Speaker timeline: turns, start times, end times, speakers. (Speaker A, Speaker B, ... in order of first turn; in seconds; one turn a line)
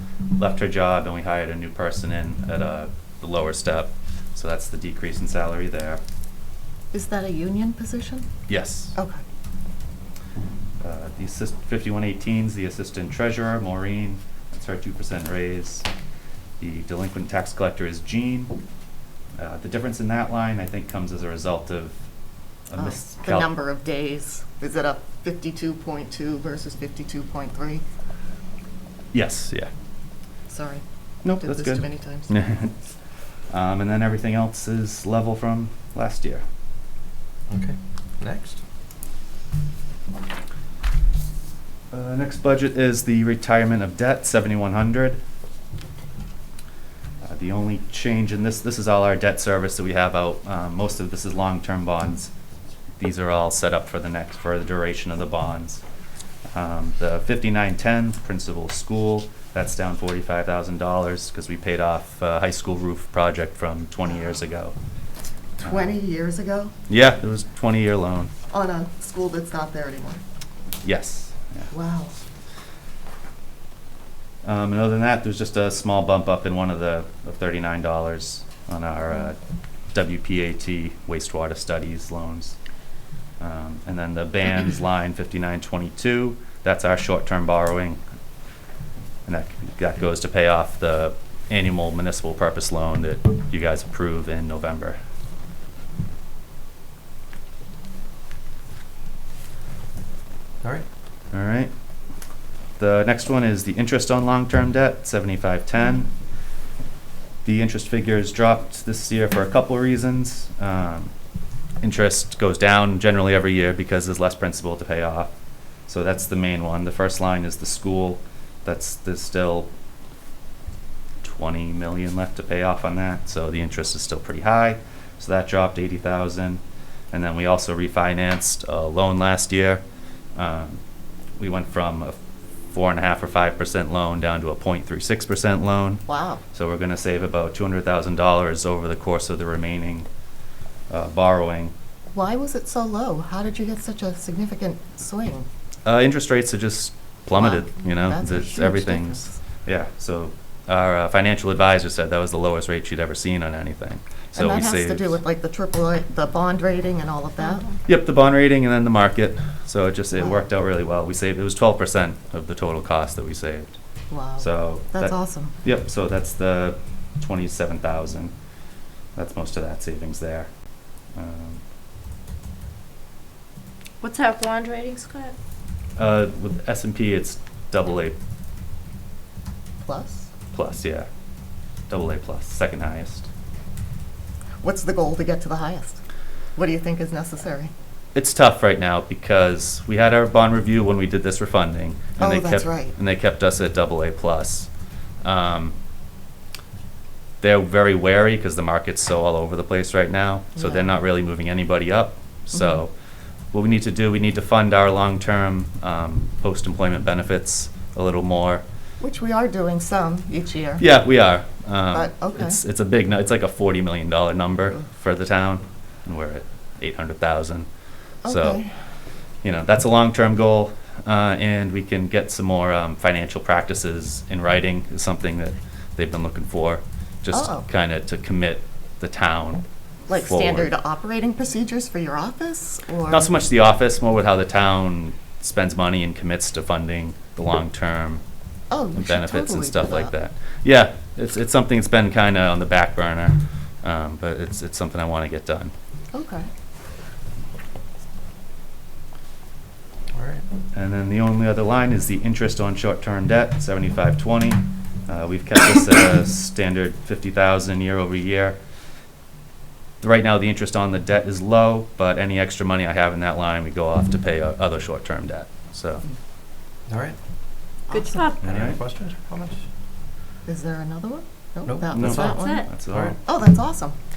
Speaker A: 0.4-6.0
Speaker B: 6.9-8.3
Speaker A: 8.5-8.9
Speaker A: 10.8-15.9
Speaker A: 16.6-18.6
Speaker A: 19.4-21.9
Speaker A: 22.7-23.5
Speaker B: 22.8-27.8
Speaker A: 29.1-29.7
Speaker B: 30.5-30.8
Speaker A: 31.2-32.7
Speaker B: 31.4-32.3
Speaker A: 33.5-36.4
Speaker C: 37.5-38.6
Speaker A: 41.9-45.2
Speaker A: 47.2-52.3
Speaker A: 53.0-55.8
Speaker A: 56.5-64.7
Speaker B: 65.6-66.7
Speaker A: 66.9-68.3
Speaker B: 68.5-70.2
Speaker A: 70.8-71.7
Speaker B: 71.7-72.1
Speaker A: 74.4-79.4
Speaker A: 79.9-82.6
Speaker A: 83.4-88.0
Speaker A: 89.2-95.0
Speaker A: 101.3-101.7
Speaker A: 102.8-106.1
Speaker A: 107.4-111.1
Speaker A: 111.8-115.3
Speaker A: 115.9-119.7
Speaker A: 121.2-126.6
Speaker A: 127.1-129.8
Speaker A: 130.3-130.8
Speaker A: 131.4-132.2
Speaker A: 132.7-140.1
Speaker B: 136.1-136.4
Speaker A: 140.9-141.7
Speaker B: 142.1-145.5
Speaker A: 145.8-155.2
Speaker B: 147.3-149.4
Speaker B: 154.3-157.7
Speaker A: 157.8-163.7
Speaker B: 160.2-160.4
Speaker B: 164.1-165.5
Speaker A: 164.4-168.3
Speaker A: 169.2-170.5
Speaker A: 171.1-171.6
Speaker D: 174.0-175.3
Speaker A: 176.0-178.2
Speaker B: 179.8-180.3
Speaker A: 180.5-181.1
Speaker A: 181.9-183.3
Speaker B: 184.6-186.0
Speaker B: 186.5-187.7
Speaker A: 188.1-194.7
Speaker B: 192.2-192.9
Speaker A: 195.2-195.7
Speaker A: 197.4-202.9
Speaker B: 200.6-200.9
Speaker A: 203.5-208.6
Speaker B: 209.0-210.8
Speaker A: 210.8-217.7
Speaker B: 211.9-212.6
Speaker B: 218.2-218.7
Speaker A: 218.2-218.6
Speaker A: 219.4-230.7
Speaker B: 227.3-227.6
Speaker B: 230.1-233.3
Speaker A: 233.1-238.2
Speaker B: 238.7-240.1
Speaker A: 238.9-245.7
Speaker B: 246.1-246.5
Speaker C: 250.1-250.4
Speaker A: 250.7-258.6
Speaker A: 260.0-266.0
Speaker C: 266.9-267.2
Speaker B: 267.9-268.3
Speaker D: 267.9-268.4
Speaker A: 268.4-268.8
Speaker C: 268.4-269.6
Speaker B: 270.4-272.6
Speaker C: 271.7-273.2
Speaker A: 271.9-273.2
Speaker D: 272.3-272.7
Speaker B: 273.2-273.9